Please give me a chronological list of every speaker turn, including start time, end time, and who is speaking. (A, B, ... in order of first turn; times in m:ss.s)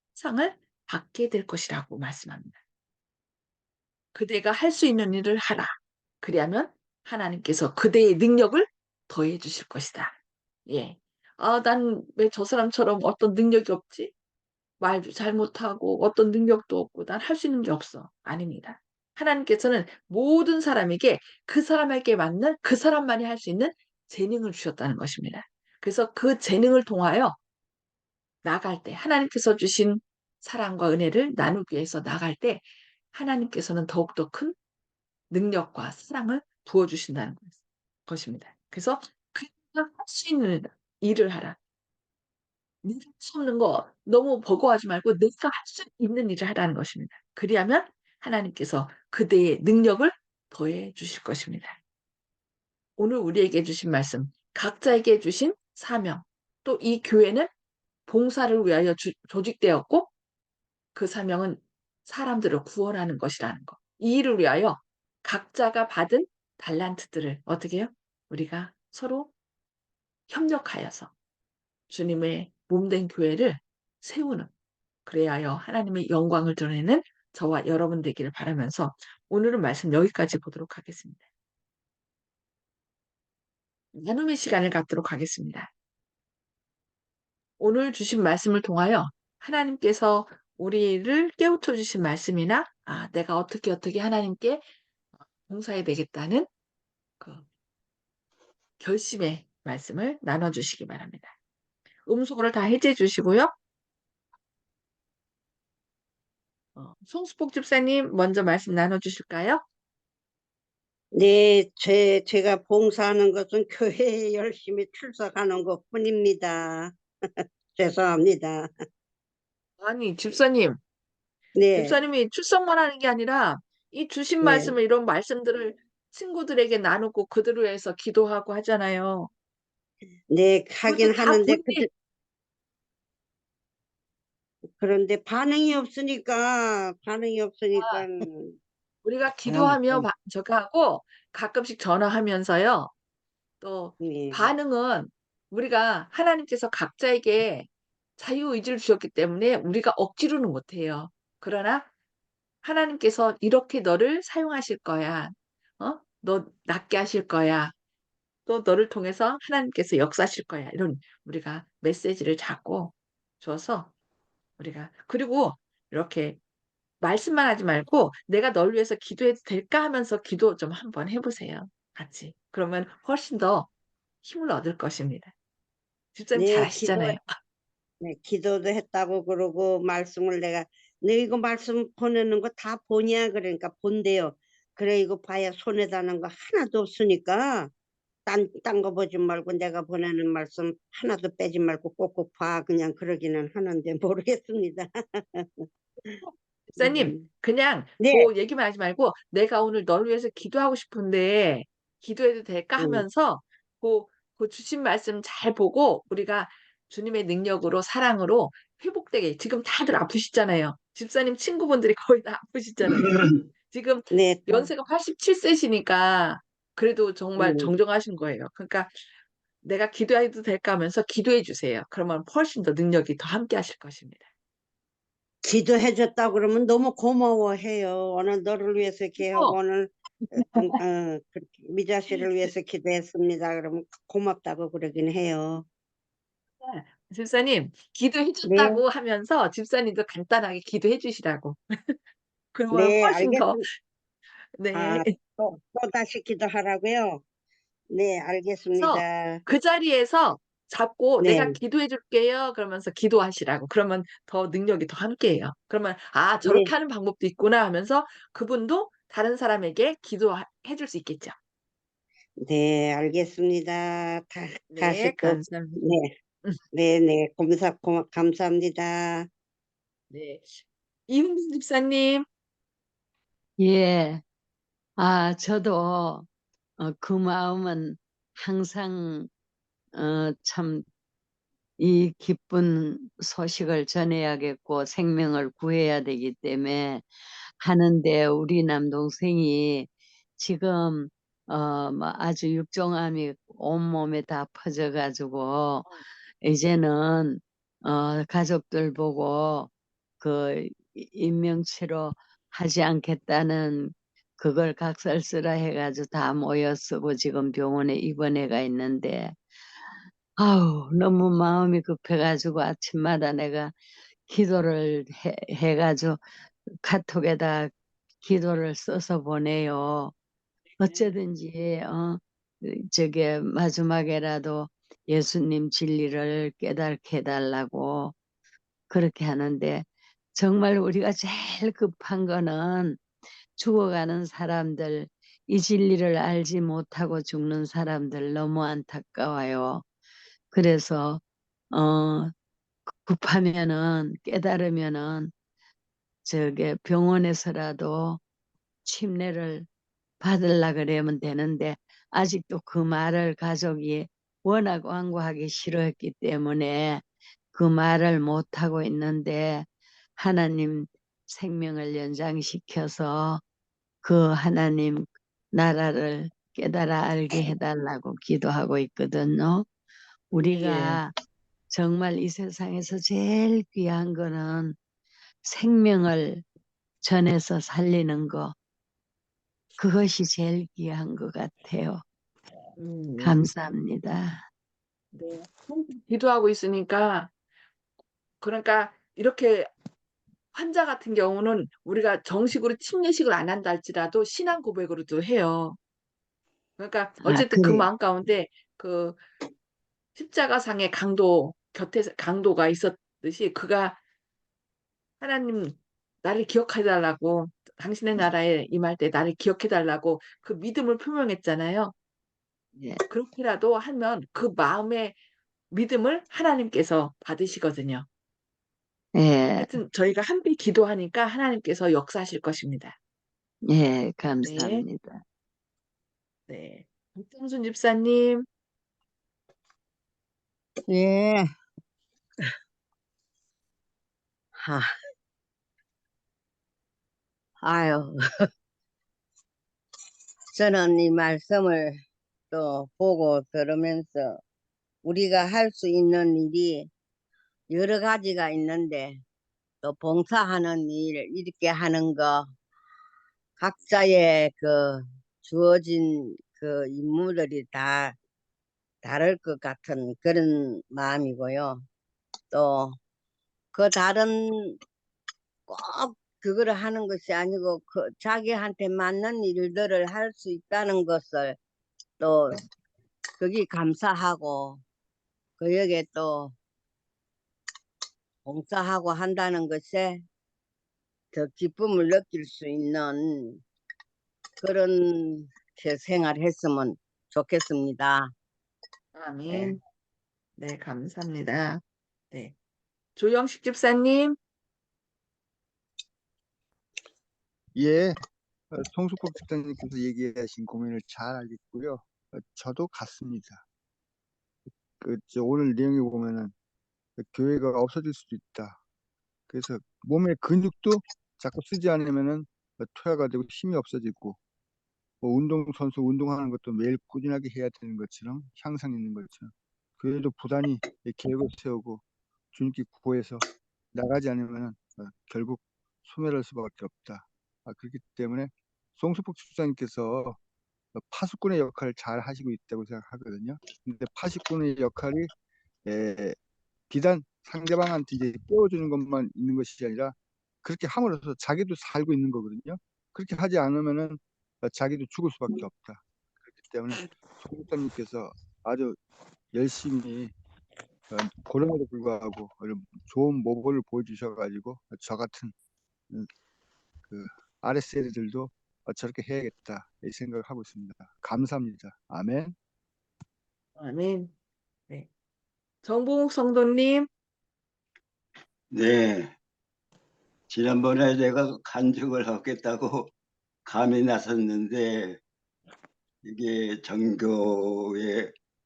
0:00.1-0:02.6 A
0:04.1-0:10.2 A
0:10.7-0:14.1 A
0:14.8-0:27.4 A
0:28.4-0:34.6 A
0:35.3-0:41.6 A
0:42.8-0:51.8 A
0:53.0-0:57.5 A
0:58.1-1:00.1 A
1:01.0-1:09.3 A
1:10.3-1:11.1 A
1:11.9-1:14.5 A
1:15.1-1:21.2 A
1:23.9-1:25.7 A
1:27.6-1:34.6 A
1:35.5-1:36.5 A
1:37.2-1:37.5 A
1:38.8-1:41.3 A
1:42.1-1:43.5 A
1:46.8-1:49.6 A
1:51.1-1:57.0 B
1:57.8-1:58.7 B
1:59.8-2:00.8 A
2:01.6-2:02.0 B
2:01.7-2:09.3 A
2:04.4-2:04.7 B
2:10.3-2:11.9 B
2:10.8-2:11.9 A
2:14.8-2:18.6 B
2:17.8-2:18.0 A
2:19.0-2:22.9 A
2:19.5-2:20.1 B
2:23.6-2:31.9 A
2:24.0-2:24.5 B
2:32.6-2:37.7 A
2:38.5-2:43.9 A
2:44.6-2:46.4 A
2:47.0-2:53.7 A
2:54.2-2:55.3 A
2:56.2-2:57.4 A
2:56.4-2:57.2 B
2:58.0-3:07.7 B
3:08.3-3:16.2 B
3:16.2-3:38.9 A
3:16.8-3:17.3 B
3:18.0-3:18.3 B
3:22.8-3:23.1 B
3:34.1-3:34.7 B
3:37.4-3:37.7 B
3:39.6-3:44.3 A
3:45.4-3:55.6 B
3:49.2-3:49.6 A
3:50.2-3:50.8 A
3:52.1-3:52.5 A
3:56.6-4:02.0 A
3:58.5-3:58.8 B
4:02.5-4:03.6 A
4:02.7-4:03.6 B
4:04.6-4:05.1 A
4:04.7-4:07.2 B
4:07.9-4:09.4 B
4:08.8-4:21.4 A
4:11.2-4:11.6 B
4:16.4-4:16.7 B
4:22.4-4:26.1 B
4:24.7-4:25.8 A
4:26.7-4:29.3 B
4:30.1-4:32.3 A
4:33.6-4:34.2 C
4:35.0-4:36.3 C
4:36.8-4:39.3 C
4:40.0-4:40.9 C
4:41.8-4:55.9 C
4:56.4-5:09.4 C
5:10.4-5:13.7 C
5:14.3-5:16.2 C
5:16.8-5:20.1 C
5:20.8-5:28.2 C
5:20.8-5:21.0 A
5:28.9-5:33.0 C
5:33.6-5:39.8 C
5:40.5-5:41.2 C
5:41.7-5:42.3 C
5:42.9-5:45.3 C
5:46.3-5:48.2 C
5:48.8-5:49.7 C
5:50.2-5:59.7 C
6:00.2-6:03.4 C
6:04.0-6:09.7 C
6:10.3-6:11.1 C
6:10.4-6:11.0 A
6:11.7-6:14.8 C
6:15.5-6:16.4 C
6:17.0-6:18.5 C
6:19.8-6:22.0 C
6:22.8-6:23.4 A
6:23.2-6:24.4 C
6:25.1-6:27.3 A
6:28.4-6:29.7 A
6:30.5-6:35.8 A
6:36.8-6:39.2 A
6:37.2-6:37.9 C
6:40.2-6:44.0 A
6:45.2-6:51.9 A
6:52.8-6:53.0 C
6:53.1-6:55.2 A
6:55.7-6:58.1 A
6:59.2-6:59.8 C
6:59.6-7:03.0 A
7:03.7-7:05.2 C
7:04.4-7:04.8 A
7:06.5-7:08.5 A
7:10.9-7:11.5 D
7:14.6-7:14.9 D
7:17.6-7:18.5 D
7:20.5-7:22.0 D
7:22.5-7:24.4 D
7:25.0-7:26.9 D
7:27.7-7:29.2 D
7:29.8-7:32.5 D
7:33.6-7:38.2 D
7:39.0-7:41.9 D
7:42.5-7:43.0 D
7:43.7-7:44.8 D
7:45.7-7:51.6 D
7:52.2-7:52.6 D
7:53.4-7:54.8 D
7:55.6-7:56.6 D
7:58.5-8:00.2 D
8:01.3-8:03.6 D
8:04.6-8:08.3 D
8:09.2-8:09.8 A
8:09.5-8:09.8 D
8:10.6-8:12.5 A
8:13.2-8:14.4 A
8:17.8-8:18.2 E
8:18.7-8:23.6 E
8:25.0-8:26.5 E
8:27.2-8:28.8 E
8:29.5-8:34.4 E
8:35.2-8:43.4 E
8:43.9-8:50.4 E
8:51.0-8:55.3 E
8:55.8-8:56.4 E
8:56.9-9:09.0 E
9:09.5-9:10.3 E
9:11.1-9:15.5 E
9:17.1-9:22.6 E
9:23.8-9:24.3 A
9:25.8-9:27.1 A
9:28.7-9:29.4 F
9:30.5-9:33.1 F
9:33.7-9:35.2 F
9:36.2-9:38.3 F